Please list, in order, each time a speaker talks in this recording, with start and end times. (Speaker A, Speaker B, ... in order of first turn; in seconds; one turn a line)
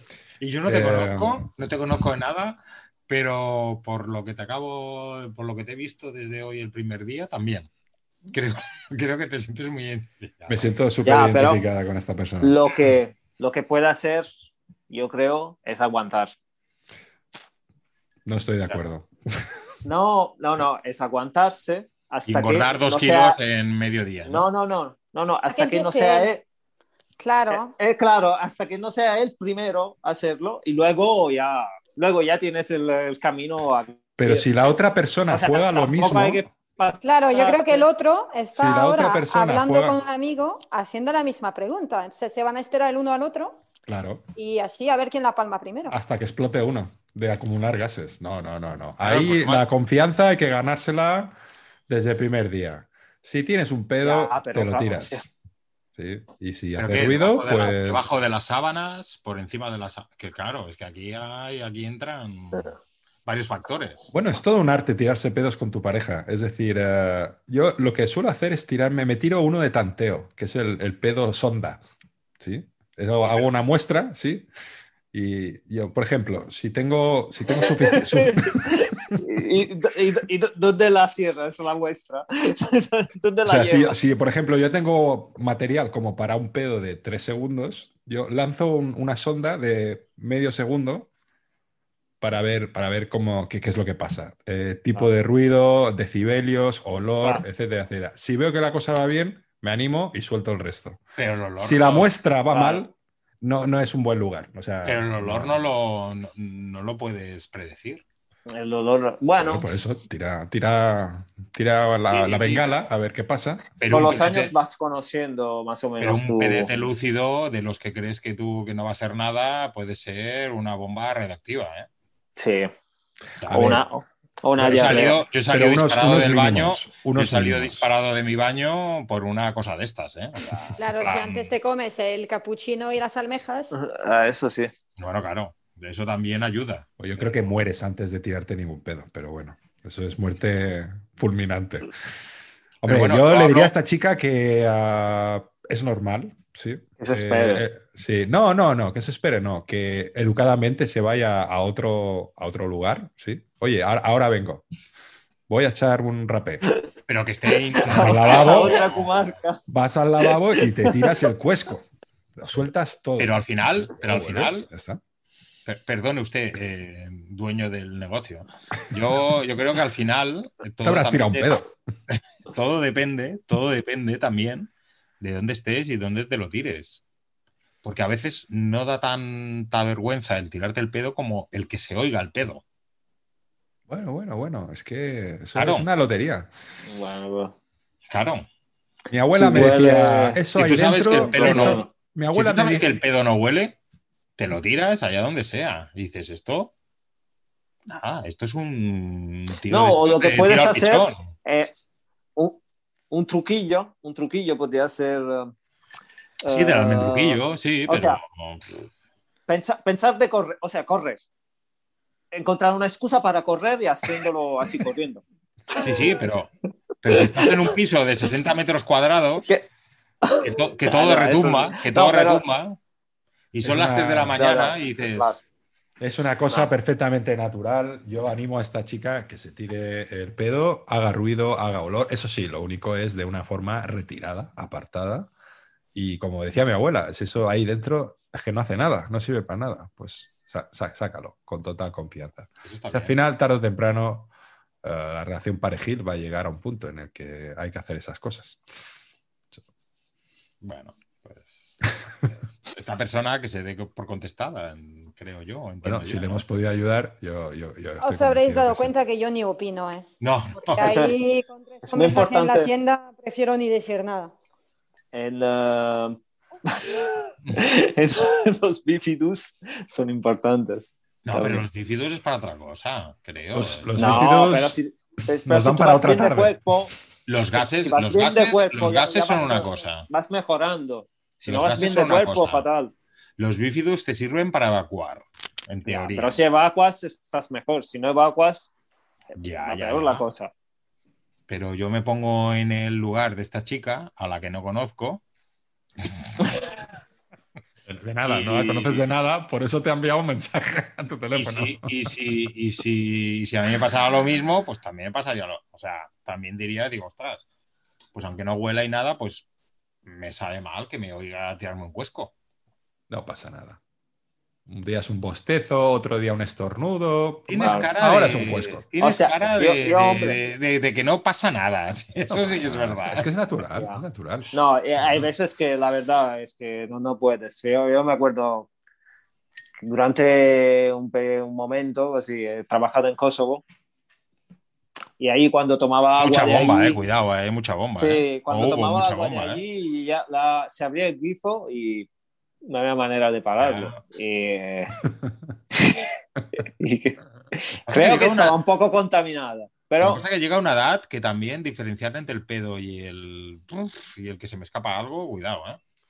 Speaker A: 0.4-7.7
Speaker B: 0.7-1.5
Speaker A: 8.3-10.7
Speaker B: 10.5-12.6
Speaker C: 11.1-11.6
Speaker C: 12.4-14.3
Speaker C: 14.9-16.3
Speaker B: 18.2-19.1
Speaker C: 19.9-23.4
Speaker A: 22.3-24.5
Speaker C: 24.2-26.4
Speaker D: 25.5-26.3
Speaker D: 27.2-27.7
Speaker C: 27.5-34.6
Speaker B: 34.2-36.4
Speaker C: 35.3-37.9
Speaker D: 37.0-43.6
Speaker B: 38.5-40.0
Speaker B: 43.9-44.3
Speaker D: 44.4-46.0
Speaker B: 45.9-51.4
Speaker A: 49.0-49.6
Speaker B: 51.9-55.3
Speaker C: 54.0-55.3
Speaker B: 56.0-58.2
Speaker A: 56.8-64.1
Speaker B: 64.1-71.8
Speaker B: 72.4-74.5
Speaker B: 75.1-79.2
Speaker C: 77.6-84.0
Speaker B: 83.5-91.1
Speaker B: 92.2-101.0
Speaker A: 101.2-102.1
Speaker B: 101.6-105.7
Speaker C: 102.5-102.8
Speaker A: 104.8-108.0
Speaker C: 108.5-109.7
Speaker B: 109.4-114.2
Speaker C: 112.1-112.6
Speaker A: 113.8-114.5
Speaker C: 113.9-116.7
Speaker A: 116.0-121.9
Speaker C: 122.4-122.7
Speaker A: 123.4-123.8
Speaker B: 123.5-123.8
Speaker C: 123.5-125.2
Speaker B: 124.6-127.9
Speaker A: 124.6-131.5
Speaker D: 130.8-133.8
Speaker C: 133.7-134.7
Speaker A: 135.0-136.9
Speaker B: 137.0-141.9
Speaker B: 142.8-154.7
Speaker A: 142.8-143.7
Speaker C: 147.0-147.7
Speaker B: 155.5-156.7
Speaker A: 157.1-159.4
Speaker C: 157.8-159.6
Speaker B: 157.9-158.9
Speaker B: 159.7-165.0
Speaker C: 160.2-161.1
Speaker A: 163.2-164.7
Speaker A: 165.7-171.5
Speaker B: 170.8-171.7
Speaker A: 172.1-174.7
Speaker A: 175.2-177.0
Speaker A: 177.8-182.6
Speaker B: 183.9-186.5
Speaker A: 185.6-185.9
Speaker C: 186.9-187.6
Speaker A: 188.1-188.5
Speaker B: 189.1-193.0
Speaker C: 189.3-190.4
Speaker A: 190.6-193.8
Speaker C: 191.1-191.9
Speaker A: 194.4-196.7
Speaker A: 197.9-201.3
Speaker C: 199.7-201.7
Speaker C: 203.1-205.5
Speaker C: 206.4-208.2
Speaker A: 206.5-208.6
Speaker C: 209.5-211.3
Speaker C: 212.3-215.9
Speaker A: 215.8-219.5
Speaker C: 217.1-217.6
Speaker C: 220.2-222.4
Speaker A: 220.4-222.8
Speaker A: 223.5-225.3
Speaker B: 223.6-224.4
Speaker C: 224.4-225.4
Speaker B: 226.0-235.3
Speaker B: 235.9-244.3
Speaker A: 242.7-243.1
Speaker B: 244.8-248.6
Speaker A: 250.6-256.5
Speaker B: 255.8-258.9
Speaker D: 258.0-260.1
Speaker A: 260.2-261.1
Speaker D: 260.7-264.3
Speaker C: 260.8-261.2
Speaker C: 261.9-262.7
Speaker C: 265.1-271.6
Speaker A: 271.2-274.2
Speaker B: 273.5-274.8
Speaker C: 273.9-276.9
Speaker B: 275.4-276.6
Speaker A: 277.3-280.1
Speaker C: 277.5-282.9
Speaker A: 281.4-282.7
Speaker A: 283.4-286.4
Speaker C: 285.9-288.7
Speaker C: 289.3-290.5
Speaker A: 289.4-290.3
Speaker A: 291.5-295.2
Speaker B: 297.9-301.9
Speaker A: 298.2-299.1
Speaker A: 301.3-307.4
Speaker A: 308.1-309.5
Speaker A: 310.1-312.3
Speaker B: 313.1-313.8
Speaker B: 314.7-318.9
Speaker A: 317.5-323.3
Speaker C: 317.6-317.9
Speaker C: 319.0-320.4
Speaker B: 322.3-324.5
Speaker C: 323.7-324.0
Speaker C: 324.5-328.7
Speaker C: 329.8-333.6
Speaker C: 335.2-337.0
Speaker A: 336.2-339.6
Speaker C: 338.0-342.1
Speaker C: 342.6-345.0
Speaker A: 343.6-344.0
Speaker C: 345.7-346.1
Speaker C: 346.6-350.2
Speaker A: 347.9-348.6
Speaker A: 350.0-355.8